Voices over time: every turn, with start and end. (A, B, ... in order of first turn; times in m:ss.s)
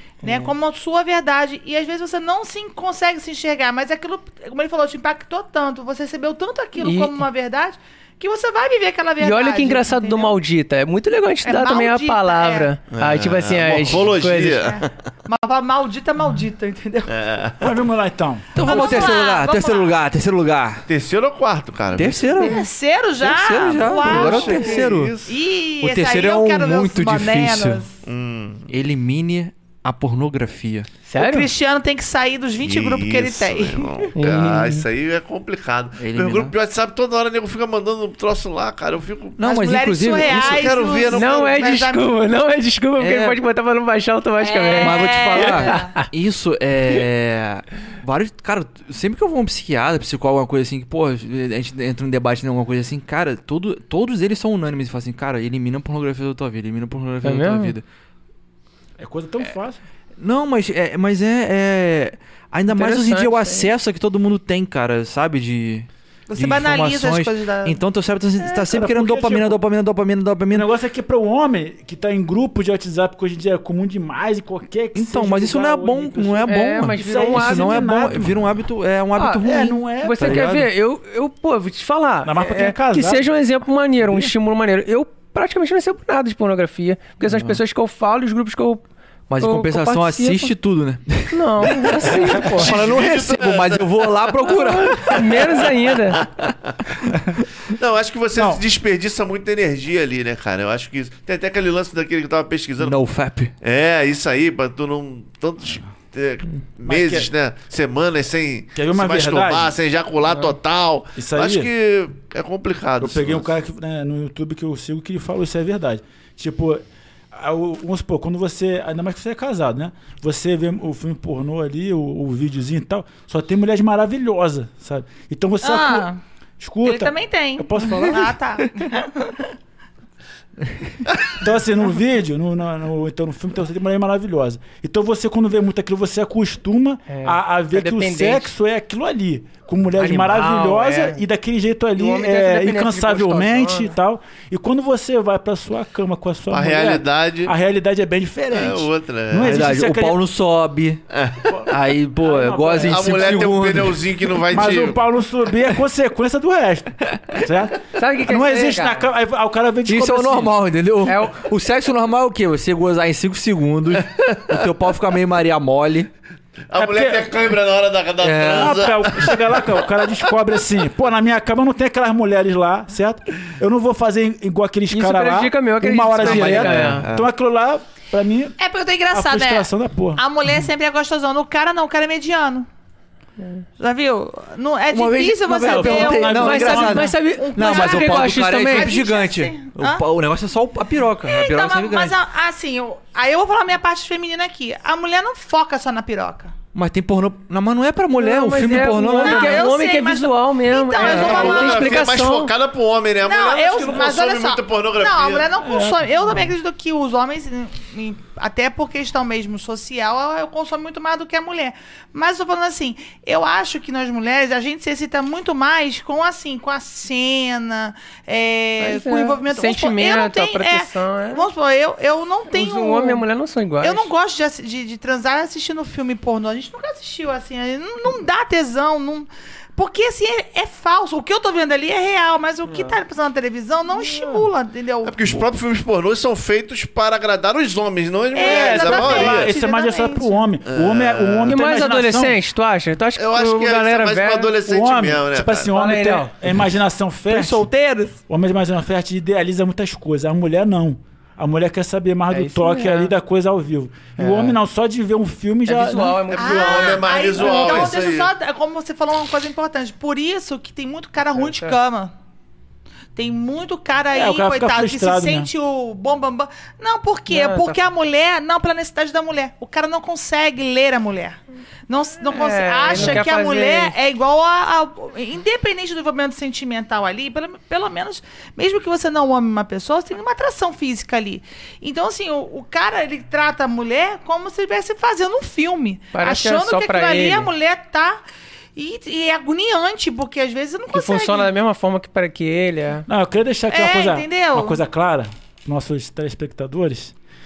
0:00.2-0:10.4 A
0:00.2-0:00.5 B
0:06.8-0:07.2 B
0:09.2-0:14.7 B
0:11.4-0:12.7 A
0:12.9-0:14.9 C
0:14.6-0:17.1 A
0:17.1-0:17.8 C
0:17.6-0:18.6 D
0:18.5-0:20.9 E
0:18.6-0:20.0 A
0:20.9-0:22.6 C
0:21.9-0:22.6 E
0:22.4-0:27.9 A
0:23.2-0:25.2 E
0:24.0-0:25.4 C
0:25.8-0:27.8 E
0:28.0-0:28.7 C
0:28.7-0:30.9 E
0:31.1-0:31.5 B
0:31.2-0:34.1 A
0:32.6-0:39.4 C
0:34.2-0:34.8 B
0:36.0-0:36.5 E
0:39.4-0:40.7 E
0:39.4-0:42.1 A
0:40.2-0:41.8 C
0:41.1-0:46.1 B
0:43.0-0:43.4 E
0:44.4-0:45.9 A
0:44.8-0:57.8 E
0:57.2-0:57.8 B
0:59.0-0:59.8 D
1:00.2-1:10.7 E
1:02.7-1:03.7 B
1:06.3-1:07.8 A
1:08.4-1:09.6 D
1:10.5-1:18.5 D
1:14.9-1:20.7 E
1:16.5-1:17.8 B
1:19.1-1:28.8 B
1:19.4-1:20.6 D
1:22.2-1:23.3 D
1:24.0-1:24.3 D
1:27.2-1:27.6 E
1:29.3-1:35.6 E
1:29.4-1:30.5 B
1:31.3-1:32.7 B
1:32.4-1:34.5 C
1:34.6-1:36.2 B
1:36.2-1:36.7 C
1:37.7-1:43.0 C
1:38.4-1:38.6 D
1:42.8-1:43.5 E
1:43.6-1:53.5 C
1:46.8-1:47.3 D
1:48.7-1:49.7 D
1:51.2-1:51.7 D
1:53.0-2:06.1 D
2:05.6-2:06.2 A
2:06.6-2:08.3 D
2:06.8-2:09.3 A
2:11.3-2:30.2 D
2:17.1-2:18.5 B
2:20.0-2:21.2 B
2:22.0-2:23.9 B
2:26.5-2:27.5 C
2:28.5-2:29.7 C
2:29.4-2:31.0 E
2:31.1-2:31.7 C
2:31.5-2:33.5 D
2:31.7-2:34.0 E
2:32.8-2:35.0 C
2:34.5-2:40.6 D
2:38.0-2:39.0 B
2:39.9-2:46.1 E
2:41.0-2:41.4 B
2:46.7-2:49.6 C
2:46.8-2:47.3 D
2:48.2-2:48.9 E
2:48.5-2:58.6 D
2:54.9-2:57.0 B
2:56.2-2:57.2 E
2:58.6-3:02.7 A
2:59.1-3:00.2 D
3:03.4-3:03.6 B
3:03.8-3:06.6 A
3:04.9-3:12.1 E
3:05.4-3:07.1 D
3:06.1-3:08.9 B
3:07.3-3:10.0 A
3:11.2-3:16.5 A
3:16.7-3:19.7 E
3:18.2-3:22.5 B
3:19.2-3:22.1 A
3:21.0-3:25.6 C
3:23.2-3:43.2 A
3:38.8-3:41.4 B
3:42.5-3:44.1 B
3:43.8-3:55.2 A
3:55.0-3:59.5 C
3:58.3-4:00.5 A
3:58.4-4:02.4 D
4:00.6-4:01.6 C
4:01.5-4:04.6 B
4:03.2-4:05.7 C
4:04.6-4:07.7 D
4:05.7-4:06.3 B
4:07.3-4:08.1 B
4:08.2-4:16.2 D
4:12.3-4:13.1 B
4:14.2-4:14.6 B
4:15.6-4:17.9 B
4:16.3-4:18.3 C
4:16.4-4:22.1 A
4:21.4-4:21.8 B
4:23.1-4:48.2 A
4:24.1-4:25.5 D
4:27.3-4:27.8 B
4:32.3-4:33.9 B
4:46.1-4:47.5 B
4:48.7-4:51.5 A
4:50.9-4:53.0 B
4:53.1-4:57.1 D
4:53.7-4:54.8 A